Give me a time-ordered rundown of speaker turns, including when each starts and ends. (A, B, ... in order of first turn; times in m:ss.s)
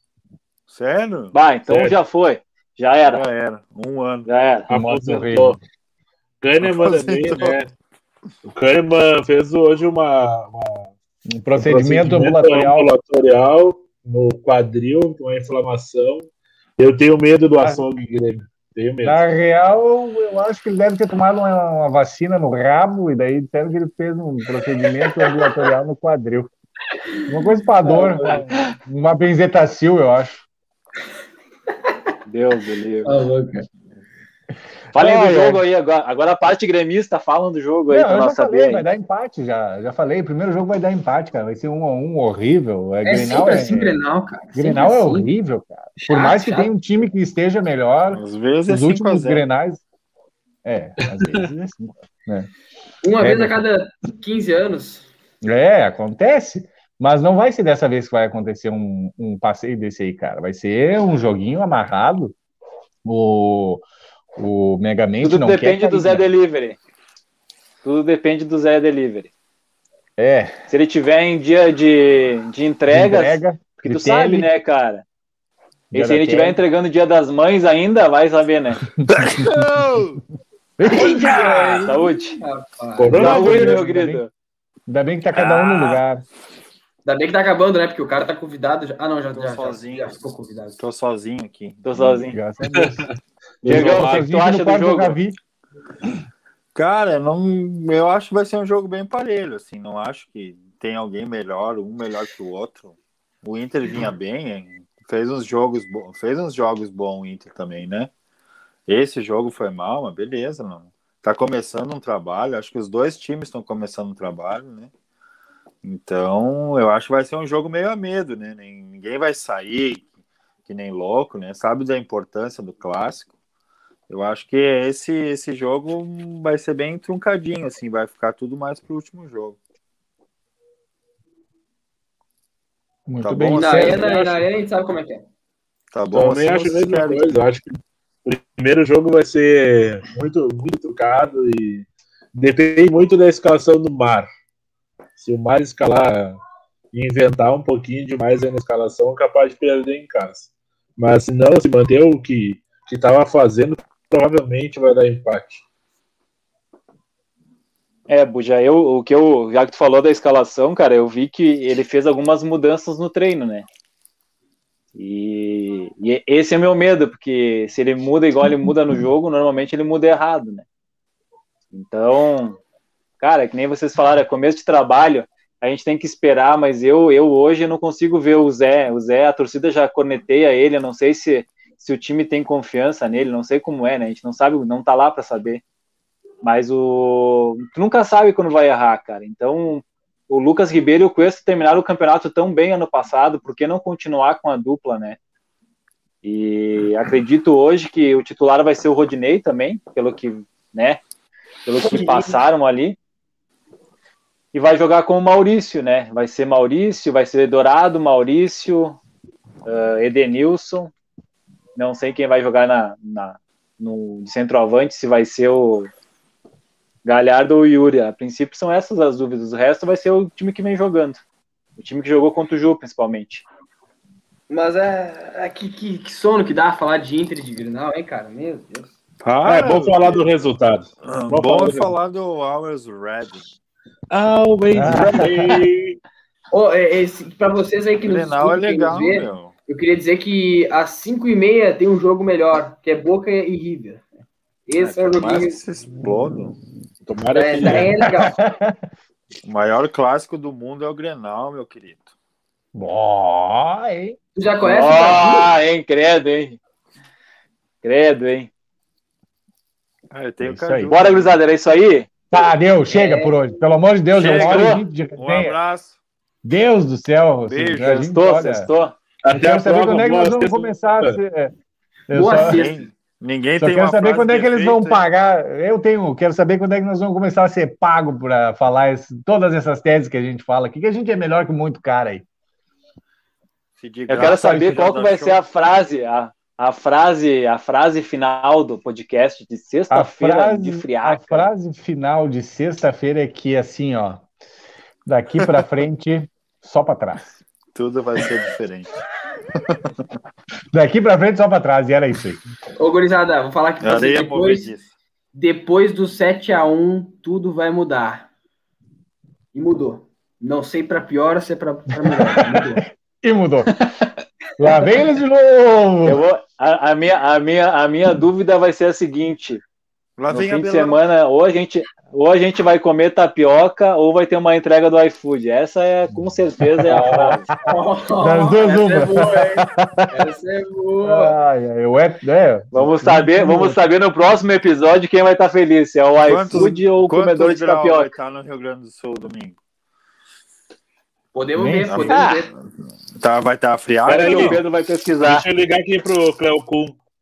0:00.7-0:01.3 A
0:01.3-0:03.2 B
0:01.7-0:02.0 C
0:03.1-0:04.3 A
0:04.2-0:04.7 B
0:04.7-0:05.6 C
0:04.7-0:05.6 D
0:06.4-0:07.7 C
0:06.6-0:07.6 A
0:08.4-0:10.9 C
0:11.3-0:12.9 D
0:11.6-0:19.2 C
0:19.0-0:26.5 D
0:27.3-0:30.4 D
0:27.3-0:28.4 E
0:32.3-0:33.2 B
0:33.0-0:33.6 E
0:34.9-0:38.8 B
0:34.9-0:35.6 D
0:37.9-0:44.0 D
0:43.0-0:45.3 E
0:44.6-0:49.8 D
0:46.0-0:46.7 E
0:48.1-0:49.4 A
0:50.6-0:52.5 D
0:51.2-0:51.4 C
0:53.0-0:55.1 E
0:53.2-0:53.6 D
0:55.4-1:02.3 D
1:03.0-1:03.8 D
1:04.4-1:06.3 D
1:05.2-1:06.8 B
1:07.8-1:09.3 B
1:10.2-1:10.6 D
1:10.7-1:15.0 B
1:12.9-1:14.5 D
1:15.9-1:18.8 B
1:15.9-1:16.6 D
1:19.0-1:19.5 D
1:19.1-1:20.2 A
1:20.8-1:21.8 D
1:20.9-1:23.3 E
1:21.2-1:21.8 A
1:21.8-1:22.4 B
1:23.0-1:23.8 C
1:23.1-1:24.2 D
1:23.1-1:24.3 B
1:24.9-1:26.2 D
1:25.3-1:26.0 A
1:27.0-1:30.8 E
1:29.3-1:30.2 A
1:30.8-1:32.3 A
1:31.8-1:32.4 B
1:32.3-1:33.1 D
1:32.7-1:33.1 C
1:33.6-1:34.0 C
1:33.6-1:35.4 D
1:33.6-1:35.2 B
1:36.7-1:48.1 A
1:48.9-1:54.9 A
1:55.8-2:00.1 A
2:00.6-2:03.3 A
2:04.1-2:09.6 A
2:13.1-2:14.3 D
2:13.2-2:14.2 A
2:13.6-2:15.2 E
2:15.9-2:17.3 A
2:16.1-2:24.3 C
2:25.2-2:26.4 C
2:26.9-2:35.6 C
2:38.1-2:43.6 B
2:44.9-2:50.6 B
2:51.7-2:52.6 B
2:53.2-3:05.6 B
3:06.4-3:15.2 B
3:16.2-3:21.0 B
3:21.6-3:23.0 B
3:21.8-3:22.4 E
3:24.5-3:29.0 B
3:29.6-3:30.9 B
3:31.8-3:35.9 B
3:37.0-3:41.2 B
3:41.8-3:43.4 B
3:44.5-3:48.9 E
3:49.2-3:50.3 A
3:49.4-3:51.9 C
3:51.0-3:53.4 A
3:54.1-3:56.0 C
3:54.7-3:55.6 D
3:56.5-4:04.0 E
3:58.0-3:59.5 A
4:04.7-4:05.6 E
4:04.8-4:06.6 A
4:07.0-4:08.0 C
4:07.3-4:08.4 E
4:07.6-4:08.8 D
4:09.4-4:12.1 A
4:12.7-4:14.2 D
4:14.3-4:15.5 E
4:14.6-4:16.6 B
4:17.8-4:18.5 B
4:20.1-4:21.4 A
4:20.4-4:20.9 D
4:20.9-4:22.1 B
4:22.3-4:25.5 D
4:22.9-4:23.4 E
4:24.2-4:24.8 B
4:24.2-4:26.0 A
4:26.4-4:28.7 D
4:27.5-4:28.1 A
4:27.9-4:28.9 B
4:29.2-4:31.2 C
4:29.3-4:31.5 D
4:32.1-4:32.6 D
4:32.1-4:32.9 E
4:32.4-4:35.0 A
4:33.6-4:42.2 D
4:43.8-4:45.4 A
4:44.1-4:51.5 B
4:44.2-4:44.8 D
4:49.9-4:54.2 D
4:55.0-4:57.3 D
4:57.7-4:58.9 A
4:59.6-4:59.9 A
5:00.7-5:02.4 D
5:02.8-5:04.7 E
5:03.8-5:04.9 A
5:05.3-5:08.3 E
5:09.5-5:12.8 E
5:12.0-5:13.7 D
5:14.6-5:16.2 D
5:16.0-5:19.6 B
5:20.2-5:21.0 A
5:20.3-5:27.5 B
5:26.8-5:27.6 D
5:27.6-5:31.3 E
5:28.2-5:30.1 D
5:31.0-5:33.8 D
5:32.7-5:38.1 B
5:36.2-5:39.6 A
5:41.3-5:42.5 E
5:41.6-5:42.1 D
5:41.9-5:42.6 A
5:42.1-5:42.4 B
5:43.2-5:44.6 A
5:44.1-5:44.6 C
5:44.1-5:45.4 B
5:45.2-5:47.0 C